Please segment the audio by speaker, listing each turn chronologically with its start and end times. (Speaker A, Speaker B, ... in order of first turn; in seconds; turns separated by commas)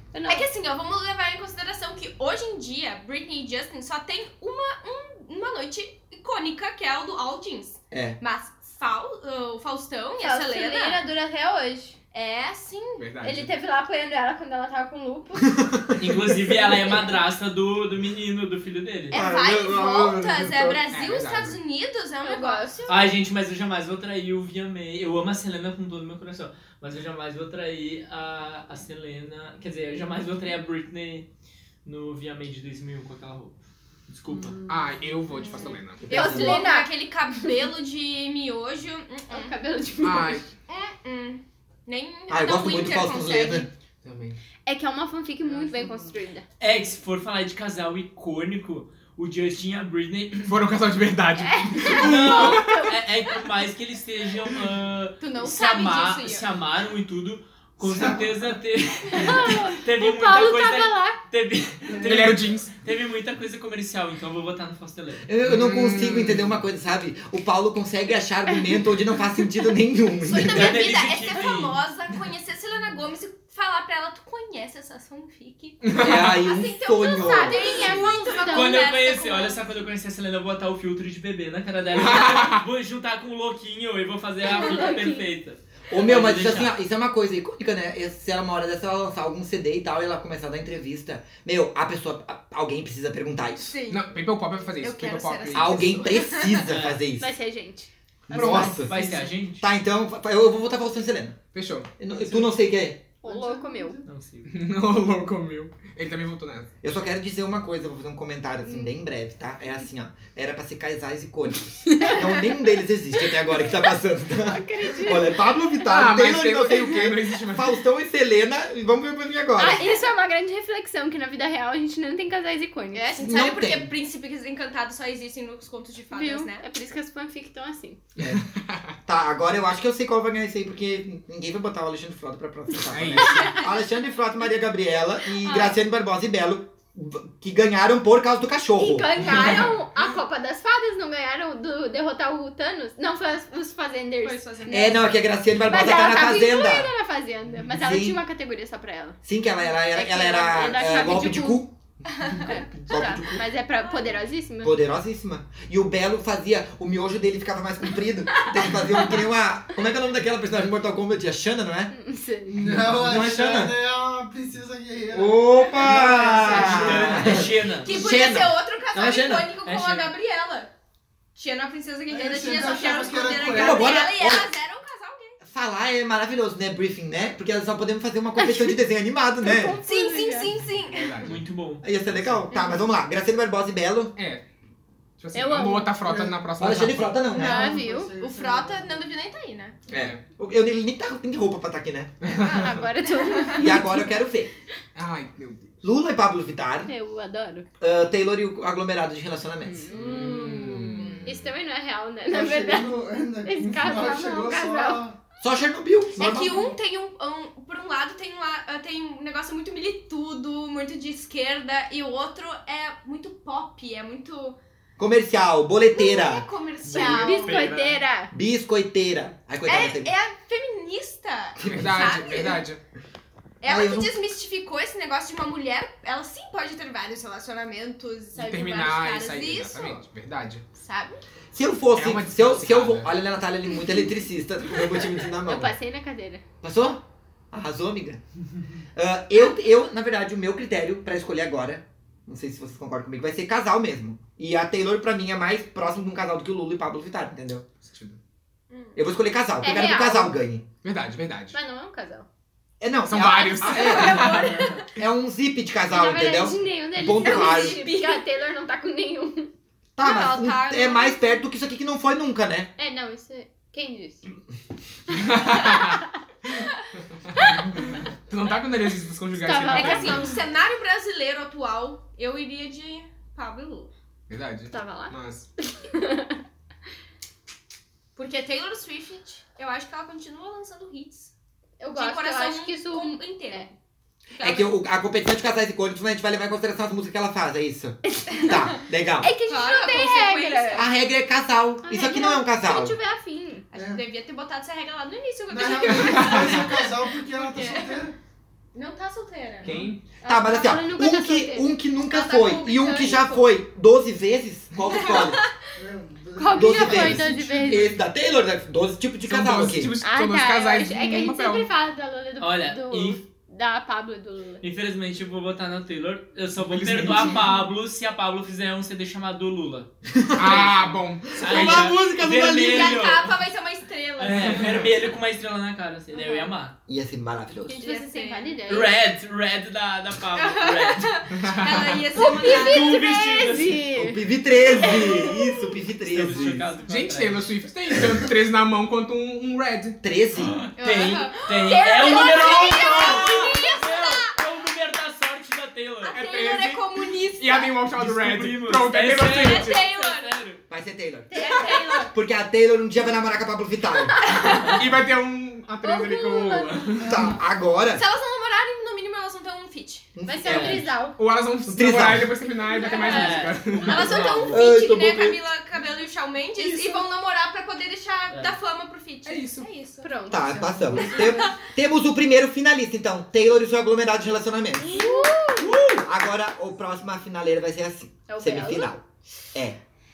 Speaker A: 0.1-0.5, Speaker B: 0.2-11.1, Speaker C: 7.9-8.2, Speaker A: 10.2-12.0, Speaker B: 12.1-13.1, Speaker D: 13.0-13.5, Speaker A: 13.2-15.6, Speaker C: 15.5-16.0, Speaker E: 16.0-19.2, Speaker C: 19.1-20.8, Speaker B: 19.1-23.1, Speaker D: 20.9-21.6, Speaker A: 22.2-22.9, Speaker E: 22.9-31.3, Speaker E: 31.9-34.6, Speaker F: 34.3-35.0, Speaker D: 34.7-36.3, Speaker B: 35.4-39.6, Speaker C: 36.1-36.6, Speaker A: 36.1-37.6, Speaker A: 39.3-40.4, Speaker D: 40.0-40.5, Speaker B: 40.7-43.7, Speaker C: 42.3-43.7, Speaker D: 44.0-44.4, Speaker A: 44.7-46.4, Speaker F: 45.4-46.1, Speaker E: 46.6-50.6, Speaker D: 50.4-52.9, Speaker A: 51.4-53.0, Speaker E: 51.9-65.3, Speaker B: 55.2-56.5, Speaker F: 57.8-58.4, Speaker A: 59.1-61.2, Speaker F: 61.9-62.3, Speaker D: 62.0-62.7, Speaker C: 65.3-70.9, Speaker D: 65.4-66.6, Speaker B: 70.2-79.6, Speaker E: 70.4-71.8, Speaker D: 75.8-76.4, Speaker C: 76.0-78.0, Speaker A: 77.0-78.8, Speaker E: 78.5-86.8, Speaker D: 81.9-82.6, Speaker A: 84.4-85.2, Speaker C: 85.9-93.7, Speaker B: 93.6-96.7, Speaker D: 93.9-95.9, Speaker C: 95.5-97.3, Speaker E: 96.6-97.0, Speaker A: 97.2-97.9, Speaker C: 98.3-101.4, Speaker D: 98.3-98.8, Speaker E: 98.3-99.6, Speaker D: 101.5-101.9, Speaker C: 102.0-103.0, Speaker A: 103.2-104.0, Speaker F: 103.2-104.1, Speaker E: 104.1-104.5, Speaker D: 104.5-106.7, Speaker C: 106.8-119.9, Speaker A: 108.6-108.9, Speaker A: 111.8-112.3, Speaker A: 114.4-115.5, Speaker D: 115.8-117.8, Speaker A: 119.6-123.1, Speaker B: 122.9-126.7, Speaker C: 123.2-123.9, Speaker A: 126.1-128.0, Speaker D: 128.2-128.8, Speaker C: 129.1-139.5, Speaker D: 132.9-133.6, Speaker A: 135.4-135.8, Speaker A: 138.8-145.1, Speaker B: 144.2-145.0, Speaker C: 144.7-146.9, Speaker A: 145.6-149.2, Speaker C: 147.7-148.2, Speaker C: 149.2-153.4, Speaker A: 149.9-151.6, Speaker A: 152.3-154.8, Speaker B: 153.8-154.2, Speaker C: 154.6-161.9, Speaker A: 161.9-162.5, Speaker F: 162.4-167.4, Speaker C: 162.6-163.7, Speaker C: 165.1-169.5, Speaker E: 166.4-167.9, Speaker B: 167.7-170.7, Speaker E: 169.7-170.1, Speaker B: 171.4-175.4, Speaker F: 172.1-174.0, Speaker C: 173.5-174.5, Speaker C: 175.4-179.8, Speaker A: 179.4-180.5, Speaker B: 179.8-181.3, Speaker D: 180.9-181.4, Speaker E: 181.2-181.8, Speaker C: 181.8-184.1, Speaker D: 182.2-182.4, Speaker B: 182.5-182.8, Speaker D: 184.2-184.4, Speaker D: 185.2-187.2, Speaker A: 185.3-186.0, Speaker F: 186.0-186.4, Speaker C: 186.6-187.7, Speaker F: 187.3-189.1, Speaker A: 187.3-188.1, Speaker B: 188.2-189.8, Speaker C: 189.9-192.2, Speaker D: 189.9-190.2, Speaker D: 192.2-192.8, Speaker B: 192.4-193.7, Speaker A: 192.6-194.1, Speaker C: 193.6-194.5, Speaker D: 194.9-195.7, Speaker C: 195.8-196.9, Speaker A: 196.9-197.7, Speaker C: 197.8-200.0, Speaker A: 199.6-200.6, Speaker D: 199.9-201.5, Speaker A: 201.2-205.0, Speaker F: 202.3-205.2, Speaker C: 205.4-206.7, Speaker B: 206.2-214.6, Speaker C: 215.0-216.5, Speaker B: 215.9-217.7, Speaker A: 216.9-218.3, Speaker E: 217.0-218.0, Speaker C: 218.3-220.1, Speaker B: 219.7-222.7, Speaker C: 221.6-221.9, Speaker D: 221.7-222.8, Speaker B: 223.6-230.1, Speaker C: 223.7-224.2, Speaker D: 228.4-230.7, Speaker B: 230.7-231.2, Speaker C: 231.5-235.7, Speaker D: 231.9-233.1, Speaker A: 235.4-236.4, Speaker C: 236.6-238.2, Speaker C: 238.9-247.7, Speaker D: 247.8-248.2, Speaker B: 248.7-249.0, Speaker C: 248.9-250.7, Speaker A: 249.6-250.4, Speaker D: 250.8-251.6, Speaker A: 251.5-252.3, Speaker C: 252.8-257.8, Speaker D: 253.0-254.8, Speaker A: 253.1-254.8, Speaker B: 253.8-254.8, Speaker A: 255.9-259.5, Speaker B: 257.1-258.3, Speaker C: 260.0-262.7, Speaker B: 260.0-261.3, Speaker A: 262.8-264.2, Speaker D: 265.2-266.0, Speaker A: 265.4-266.0, Speaker D: 267.4-267.6, Speaker D: 268.3-270.4, Speaker A: 269.4-270.4, Speaker B: 269.7-273.9, Speaker D: 274.3-275.5, Speaker A: 274.7-276.4, Speaker B: 278.2-281.3, Speaker A: 281.8-283.7, Speaker B: 281.9-283.7, Speaker B: 284.4-284.7, Speaker C: 284.4-289.3, Speaker A: 288.1-290.9, Speaker B: 289.4-290.9, Speaker C: 290.8-292.9, Speaker A: 291.8-293.6, Speaker F: 293.7-294.0, Speaker B: 293.7-298.0, Speaker F: 295.5-298.1, Speaker D: 295.9-296.7, Speaker B: 298.7-299.9, Speaker D: 299.6-300.0, Speaker A: 300.2-301.7, Speaker C: 300.2-305.4, Speaker B: 302.0-303.5, Speaker B: 304.9-305.5, Speaker F: 305.8-307.9, Speaker A: 306.4-307.9, Speaker C: 306.6-309.9, Speaker D: 309.2-311.7, Speaker A: 310.0-314.6, Speaker E: 312.4-313.2, Speaker E: 314.6-319.9, Speaker D: 316.6-317.4, Speaker C: 320.1-320.7, Speaker D: 320.4-322.0, Speaker C: 321.3-323.1, Speaker E: 321.4-323.4, Speaker B: 322.5-324.8, Speaker E: 324.2-326.8, Speaker C: 326.9-327.8, Speaker B: 327.7-328.7, Speaker A: 327.8-328.9, Speaker E: 328.7-331.1, Speaker B: 330.4-333.1, Speaker D: 331.4-332.0, Speaker A: 332.1-334.2, Speaker E: 332.5-333.8, Speaker C: 334.0-336.7, Speaker A: 334.8-335.4, Speaker E: 336.0-337.6, Speaker D: 336.9-340.0, Speaker C: 340.0-340.6, Speaker E: 340.4-346.2, Speaker B: 340.8-344.4, Speaker A: 341.7-343.3, Speaker B: 346.1-347.8, Speaker D: 346.1-349.8, Speaker E: 347.9-350.6, Speaker B: 349.3-350.4, Speaker C: 350.7-351.3, Speaker A: 351.3-352.1, Speaker B: 351.3-352.1, Speaker C: 352.1-354.4, Speaker B: 354.3-354.8, Speaker A: 354.4-354.7, Speaker D: 354.6-357.3, Speaker A: 355.8-356.9, Speaker C: 357.0-358.0, Speaker F: 357.0-357.4, Speaker B: 357.9-360.1, Speaker C: 360.1-360.9, Speaker A: 360.2-361.2, Speaker E: 360.5-360.8, Speaker D: 361.1-364.4, Speaker C: 361.7-362.3, Speaker B: 362.5-370.3, Speaker A: 362.8-363.9, Speaker E: 362.9-364.6, Speaker C: 364.5-365.4, Speaker D: 369.3-369.7, Speaker A: 370.0-371.3, Speaker C: 370.3-374.9, Speaker F: 370.3-371.5, Speaker B: 370.9-371.6, Speaker B: 374.9-375.5, Speaker A: 374.9-375.7, Speaker C: 376.0-379.0, Speaker A: 378.3-378.9, Speaker C: 379.5-379.8